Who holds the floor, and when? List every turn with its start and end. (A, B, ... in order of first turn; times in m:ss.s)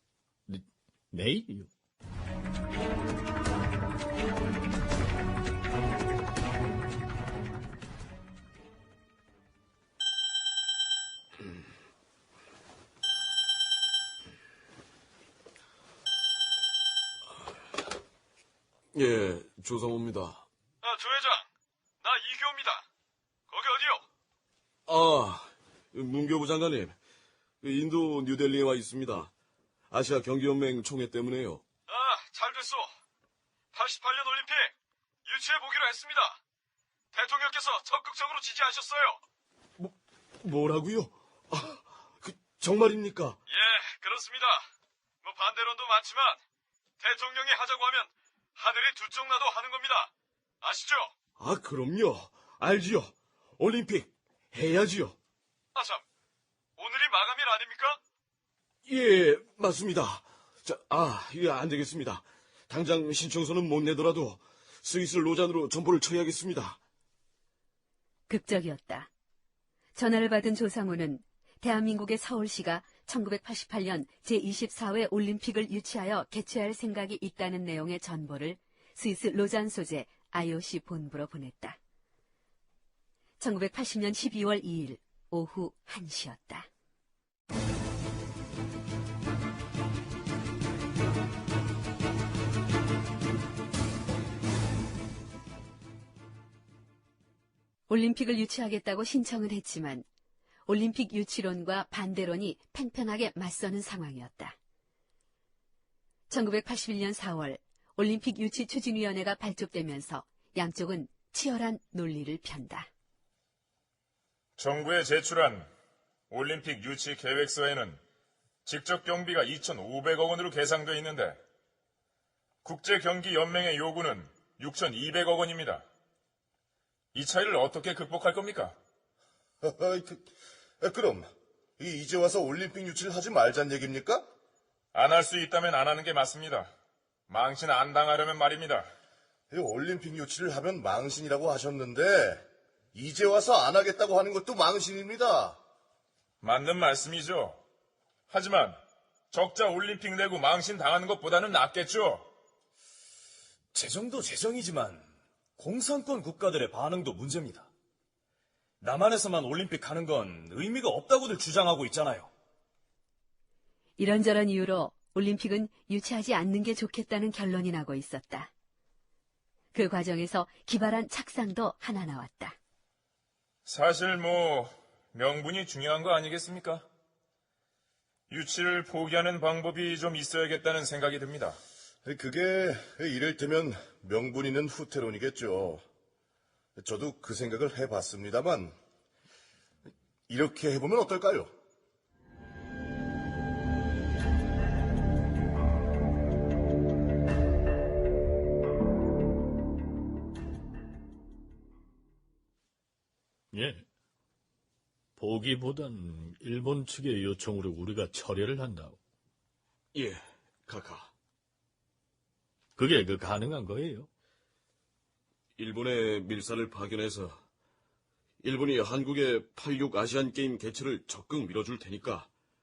0:00.5-0:01.7 A
0:18.9-0:20.5 B
0:20.8-0:21.4 C
0:22.0-0:22.8 C
0:23.5-0:24.0 C
0:24.9-0:27.0 B
0:27.6-0:29.3 B
0:29.9-0:31.6 B
0:31.9-0:32.9 C
0:33.7-0:34.7 C
0:35.2-0:36.4 C
0:37.1-0:39.2 C
0:39.8-0:43.4 B
0:43.5-0:44.6 C
0:45.2-0:46.4 C
0:47.0-0:50.1 C
0:50.6-0:51.1 C
0:51.4-0:55.2 B
0:55.7-0:56.0 C
0:56.8-0:58.0 C
0:58.8-1:06.8 B
1:08.3-1:09.1 D
1:09.9-1:21.8 D
1:23.4-1:26.7 D
1:37.9-1:40.0 D
1:40.7-1:44.6 D
1:46.3-1:52.9 D
1:54.6-1:55.7 E
1:56.3-1:58.0 E
1:58.6-2:01.4 E
2:02.6-2:05.8 E
2:07.1-2:08.8 E
2:09.6-2:10.2 F
2:10.8-2:11.3 F
2:11.8-2:14.2 F
2:14.9-2:16.7 E
2:17.3-2:18.9 E
2:19.5-2:22.4 F
2:22.9-2:25.6 F
2:26.4-2:27.6 E
2:28.3-2:28.8 E
2:29.3-2:32.3 E
2:33.7-2:37.7 G
2:38.8-2:42.3 G
2:44.0-2:48.5 D
2:49.7-2:52.6 D
2:53.6-2:56.8 E
2:58.3-3:01.6 E
3:02.0-3:05.8 F
3:06.8-3:08.7 F
3:10.3-3:11.5 F
3:23.5-3:23.8 A
3:25.2-3:29.0 A
3:29.9-3:31.1 B
3:32.8-3:34.1 A
3:35.6-3:37.4 B
3:38.4-3:42.3 B